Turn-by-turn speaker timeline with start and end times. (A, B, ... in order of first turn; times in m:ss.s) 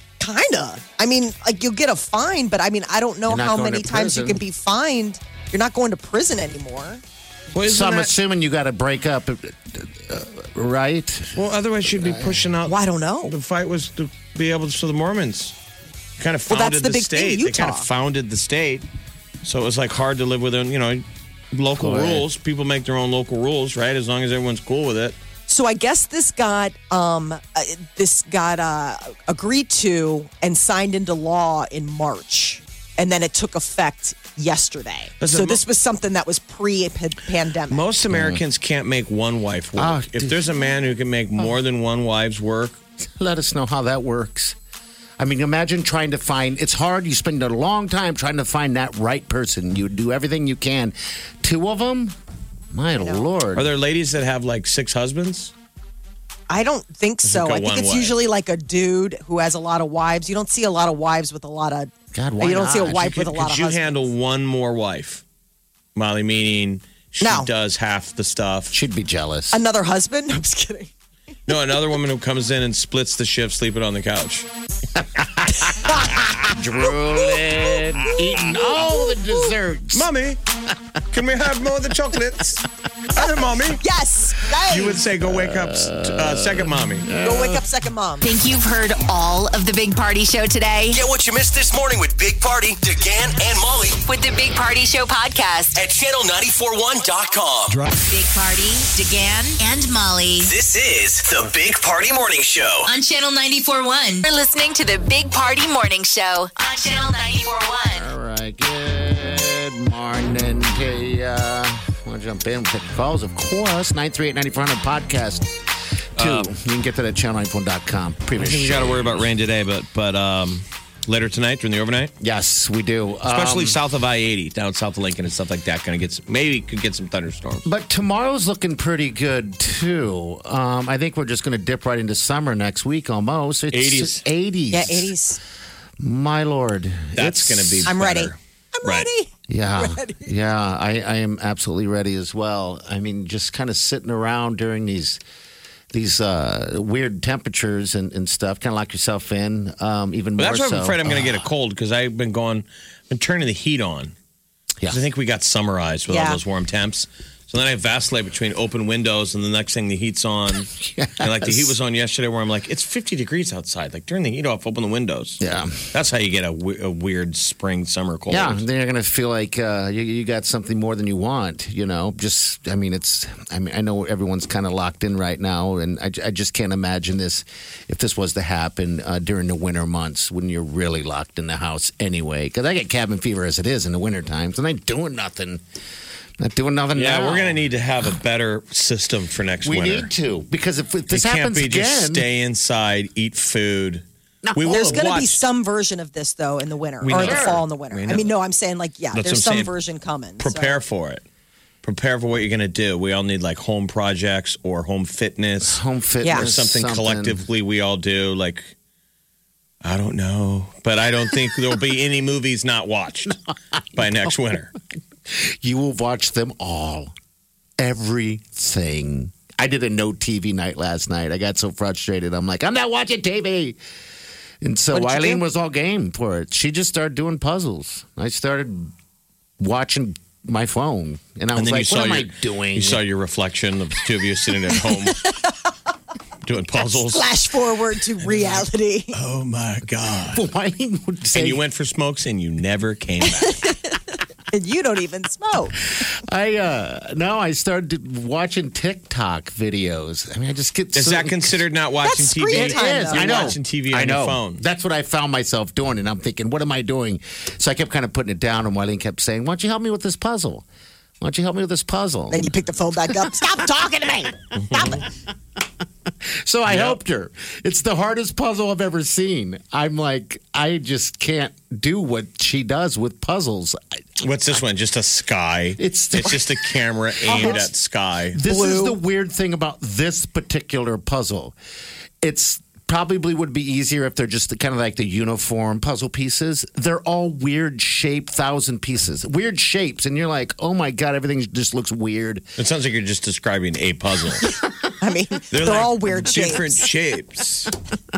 0:00.2-0:07.0 A
0:03.3-0:04.4 B
0:07.5-0:08.1 C
0:07.6-0:12.5 B
0:11.4-0:15.5 C
0:12.6-0:13.3 A
0:16.2-0:18.8 C
0:16.5-0:17.9 A
0:19.4-0:25.2 C
0:21.8-0:22.3 B
0:25.5-0:37.8 A
0:35.2-0:35.6 C
0:37.7-0:42.8 C
0:38.1-0:38.4 B
0:39.8-0:40.5 B
0:43.0-0:44.6 B
0:45.2-0:52.2 B
0:52.7-0:53.7 B
0:53.0-0:53.3 A
0:53.6-0:55.5 C
0:56.5-1:04.0 A
0:57.2-0:58.2 C
1:02.1-1:03.2 B
1:02.9-1:05.2 C
1:06.0-1:08.8 C
1:07.2-1:07.5 A
1:08.7-1:09.6 B
1:09.5-1:10.9 A
1:11.5-1:14.5 C
1:15.0-1:20.1 B
1:15.9-1:16.2 A
1:18.4-1:19.4 A
1:19.9-1:20.4 C
1:21.1-1:23.8 C
1:23.8-1:25.0 A
1:24.7-1:27.1 C
1:25.2-1:27.6 B
1:27.2-1:28.3 A
1:28.2-1:31.0 D
1:30.9-1:34.0 E
1:34.0-1:35.8 D
1:35.8-1:37.8 E
1:37.9-1:40.5 D
1:40.4-1:42.9 E
1:42.9-1:48.1 D
1:48.0-1:55.5 B
1:56.2-1:59.2 B
1:56.2-1:56.5 C
1:58.4-2:02.1 C
2:02.2-2:03.8 B
2:03.3-2:07.6 C
2:07.6-2:15.1 B
2:13.7-2:14.2 C
2:14.7-2:15.4 A
2:16.0-2:17.9 B
2:17.2-2:19.1 C
2:17.9-2:20.3 A
2:19.5-2:25.2 B
2:25.9-2:31.5 B
2:30.4-2:34.1 C
2:34.9-2:40.7 C
2:36.1-2:36.4 A
2:40.7-2:41.8 B
2:41.2-2:45.4 C
2:45.4-2:45.9 B
2:45.9-2:48.6 C
2:48.3-3:05.6 B
3:06.4-3:07.6 B
3:07.0-3:10.1 C
3:09.6-3:12.3 B
3:11.1-3:15.4 C
3:14.4-3:15.1 B
3:14.7-3:20.8 A
3:17.0-3:18.3 C
3:17.1-3:17.6 B
3:19.1-3:19.7 C
3:20.4-3:21.2 C
3:21.8-3:28.7 C
3:25.6-3:27.4 B
3:26.2-3:26.5 A
3:29.8-3:33.3 C
3:33.9-3:34.7 C
3:34.0-3:34.3 B
3:35.3-3:37.1 B
3:37.8-3:43.8 B
3:44.6-3:48.9 B
3:44.9-3:45.4 A
3:49.6-3:53.0 B
3:51.6-3:55.3 C
3:55.2-3:55.5 A
3:56.4-3:57.3 C
3:56.8-3:59.1 A
3:58.3-3:58.6 C
3:59.1-4:00.4 C
4:00.3-4:01.6 B
4:01.3-4:03.7 C
4:03.5-4:03.9 A
4:04.5-4:05.8 A
4:06.0-4:11.6 B
4:10.9-4:14.6 C
4:12.0-4:13.6 A
4:12.5-4:20.7 B
4:21.2-4:22.5 B
4:22.3-4:25.0 A
4:23.1-4:25.1 B
4:26.3-4:34.3 B
4:26.7-4:27.0 C
4:34.2-4:38.4 C
4:35.8-4:36.7 B
4:37.2-4:37.7 B
4:37.3-4:37.6 A
4:38.3-4:41.6 B
4:38.4-4:39.0 A
4:42.2-4:52.5 B
4:52.6-4:54.5 C
4:55.0-4:56.8 A
4:55.5-4:57.7 C